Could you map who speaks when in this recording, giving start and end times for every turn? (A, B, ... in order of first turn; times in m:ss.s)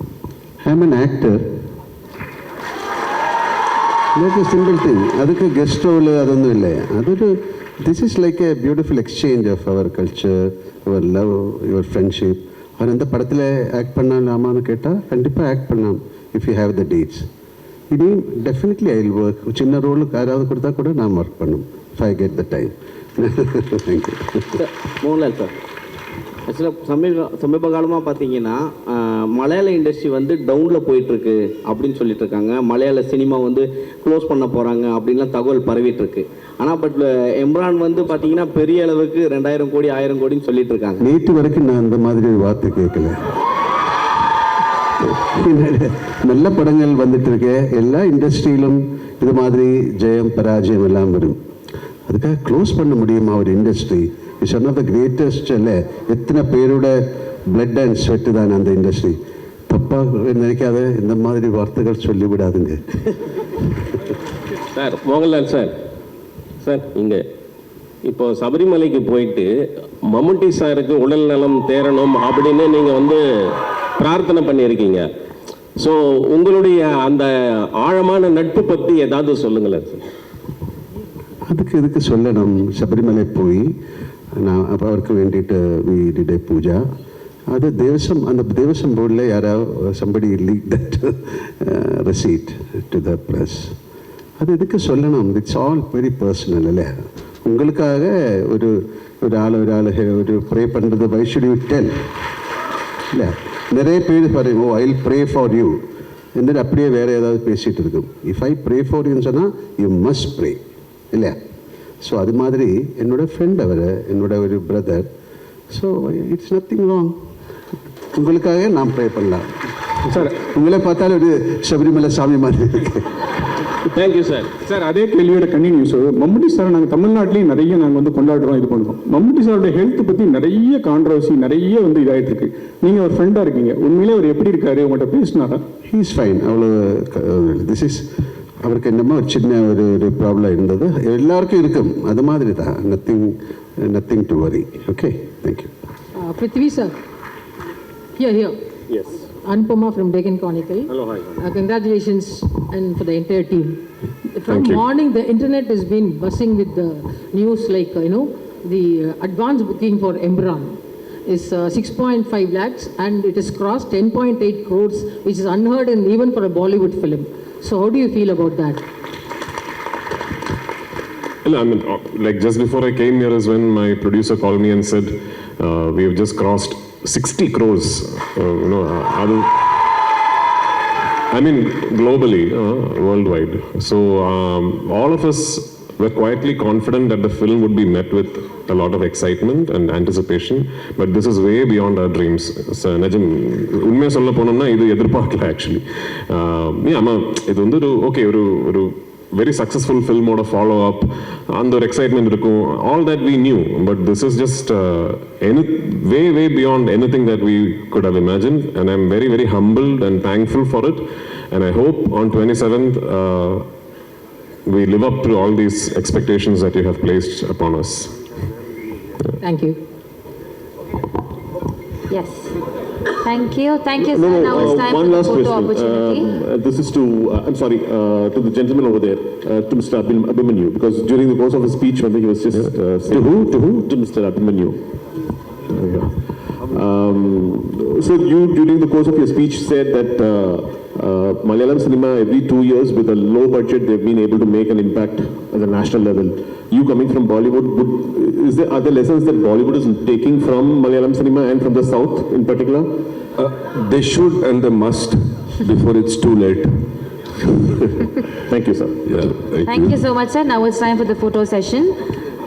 0:00.6-0:01.4 A
0:04.2-0:17.3 A
0:17.9-0:24.4 A
0:24.6-0:25.5 B
0:26.5-0:41.0 B
0:41.0-0:43.2 A
0:45.1-0:51.4 A
0:52.1-0:57.0 A
0:57.5-0:59.2 A
0:59.7-1:02.8 A
1:04.8-1:05.7 C
1:06.6-1:07.2 C
1:08.0-1:09.5 C
1:10.1-1:13.2 C
1:14.0-1:15.1 C
1:15.8-1:20.0 C
1:21.5-1:23.7 A
1:24.4-1:26.8 A
1:27.5-1:33.7 A
1:34.4-1:42.0 A
1:43.1-1:45.8 A
1:46.4-1:50.6 A
1:52.0-1:55.1 A
1:55.7-1:57.2 A
1:58.2-1:59.4 A
2:00.1-2:03.1 A
2:03.9-2:04.6 C
2:04.7-2:15.6 D
2:15.9-2:18.0 A
2:18.6-2:25.7 A
2:26.2-2:26.9 E
2:28.2-2:28.6 E
2:29.3-2:33.8 E
2:34.4-2:40.8 E
2:41.3-2:48.8 E
2:51.4-2:59.5 F
3:01.3-3:33.6 F
3:34.7-3:38.1 F
3:39.4-3:39.8 E
3:42.1-3:42.5 G
3:43.2-3:46.3 G
3:44.0-3:54.8 H
3:55.7-4:12.9 H
4:13.8-4:16.6 I
4:18.5-4:19.3 H
4:19.6-4:22.0 G